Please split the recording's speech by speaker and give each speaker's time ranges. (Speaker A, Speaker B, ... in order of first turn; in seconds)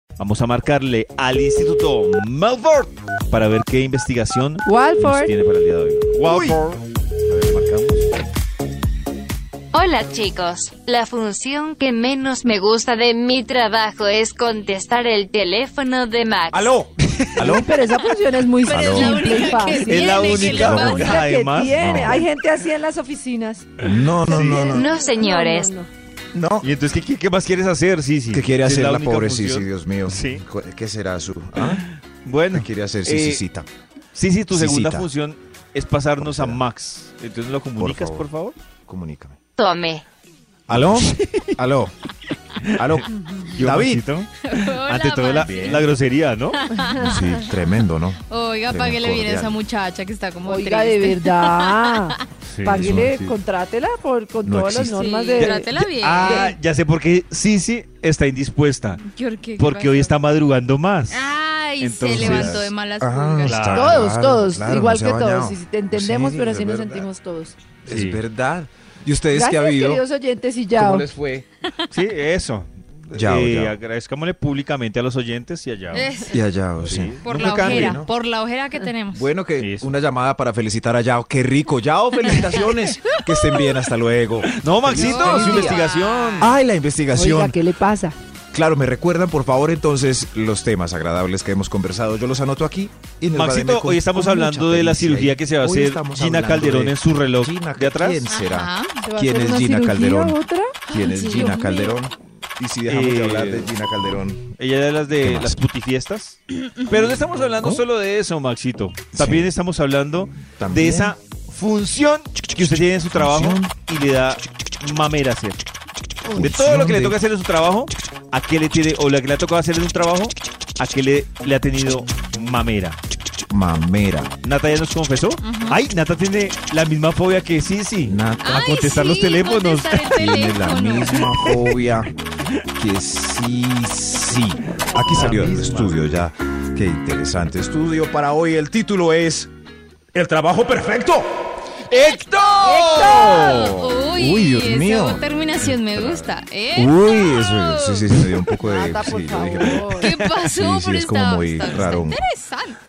Speaker A: 0.2-8.0, 17.1-17.5, 19.9-21.9, 24.3-24.7, 26.6-30.4, 31.6-33.4, 34.1-38.5, 40.7-41.5, 42.6-46.6, 52.5-53.3, 55.4-59.0, 59.6-61.2, 61.8-62.7, 63.4-64.0, 67.9-68.2, 71.9-76.1, 76.8-78.0, 79.6-79.9, 84.5-86.5, 93.3-98.3, 102.9-103.7, 104.6-115.6, 116.3-123.0, 124.4-130.1, 135.1-135.9, 141.9-143.8, 150.0-150.3
Speaker B: 4.7-5.3, 17.4-23.7, 24.2-25.9, 50.5-55.7, 63.7-67.5, 69.3-71.1, 87.1-88.2, 99.0-100.8, 101.4-101.9, 142.6-143.5, 148.6-150.0
Speaker C: 6.2-6.6, 16.5-17.7, 18.6-19.2, 20.2-21.2, 21.7-22.2, 23.8-24.9, 26.3-26.7, 28.3-31.8, 32.5-33.7, 34.5-35.1, 36.2-36.6, 37.8-38.3, 38.9-39.4, 40.7-41.9, 42.7-44.0, 47.0-49.5, 52.7-53.2, 54.4-55.0, 62.1-67.1, 67.8-70.0, 70.8-71.5, 73.1-73.8, 76.3-78.1, 79.1-85.8, 86.4-87.6, 88.5-104.5, 105.2-105.6, 109.1-109.5, 110.6-111.1, 112.6-113.7, 116.3-117.2, 123.5-124.3, 128.1-128.9, 130.1-132.1, 132.7-139.5, 140.1-141.5, 142.9-152.2
Speaker D: 9.7-16.8, 24.6-25.7, 39.6-40.0
Speaker E: 18.6-21.2, 44.5-45.9, 46.6-47.3, 48.3-52.1, 54.9-56.5, 59.0-60.1, 61.1-63.9, 75.9-76.4, 77.2-79.3, 82.3-83.7, 84.9-86.5, 98.3-99.0, 100.9-101.9, 125.4-125.8, 128.4-131.5, 142.6-148.2, 150.0-152.8